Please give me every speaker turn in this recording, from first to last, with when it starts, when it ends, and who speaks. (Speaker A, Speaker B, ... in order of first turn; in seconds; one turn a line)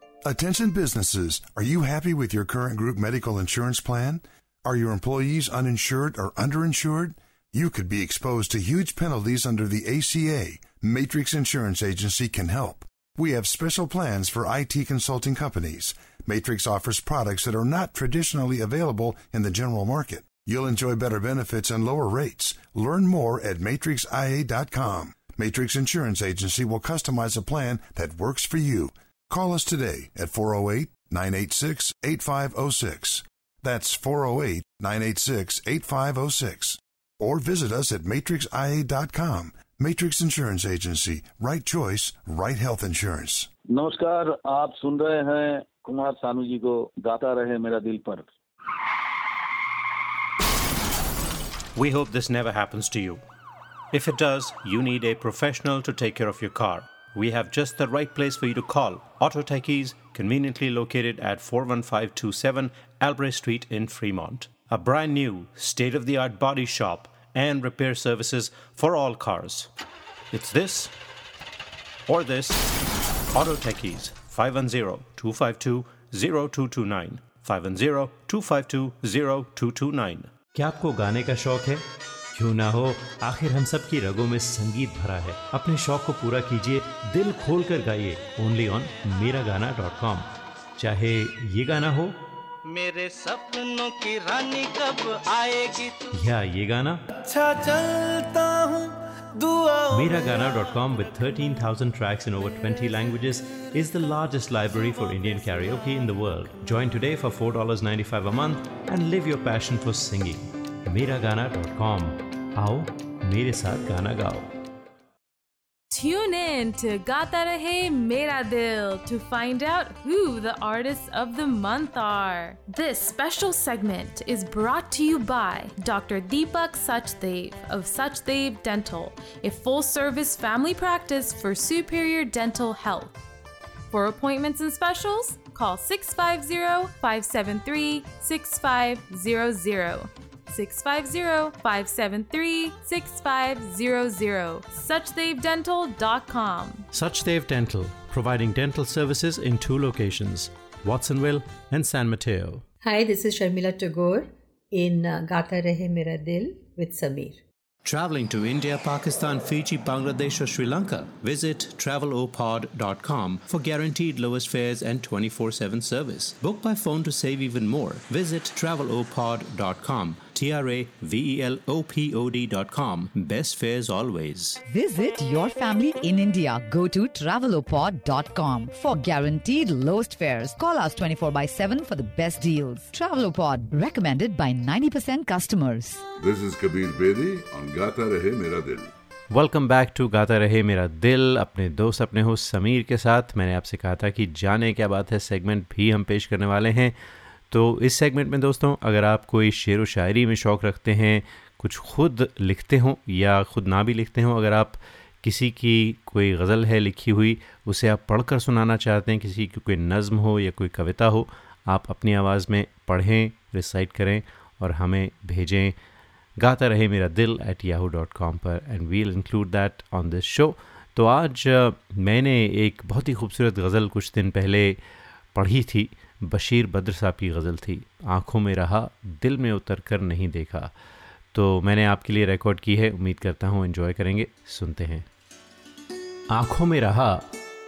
Speaker A: 0.2-43.5
Speaker B: 43.7-48.3
Speaker C: 51.8-53.2
Speaker C: 53.9-69.7
Speaker C: 70.3-70.9
Speaker C: 72.1-72.6
Speaker C: 73.3-92.2
Speaker D: 92.7-96.0
Speaker C: 96.1-97.0
Speaker D: 97.2-100.2
Speaker C: 99.9-114.5
Speaker E: 115.9-133.1
Speaker E: 133.9-146.9
Speaker C: 146.9-152.6
Speaker F: 152.8-157.4
Speaker C: 157.8-174.6
Speaker G: 174.7-186.0
Speaker H: 186.2-188.9
Speaker C: 189.3-196.9
Speaker C: 197.5-215.7
Speaker C: 216.4-224.8
Speaker C: 225.3-230.7
Speaker C: 231.3-235.1
Speaker C: 236.3-237.3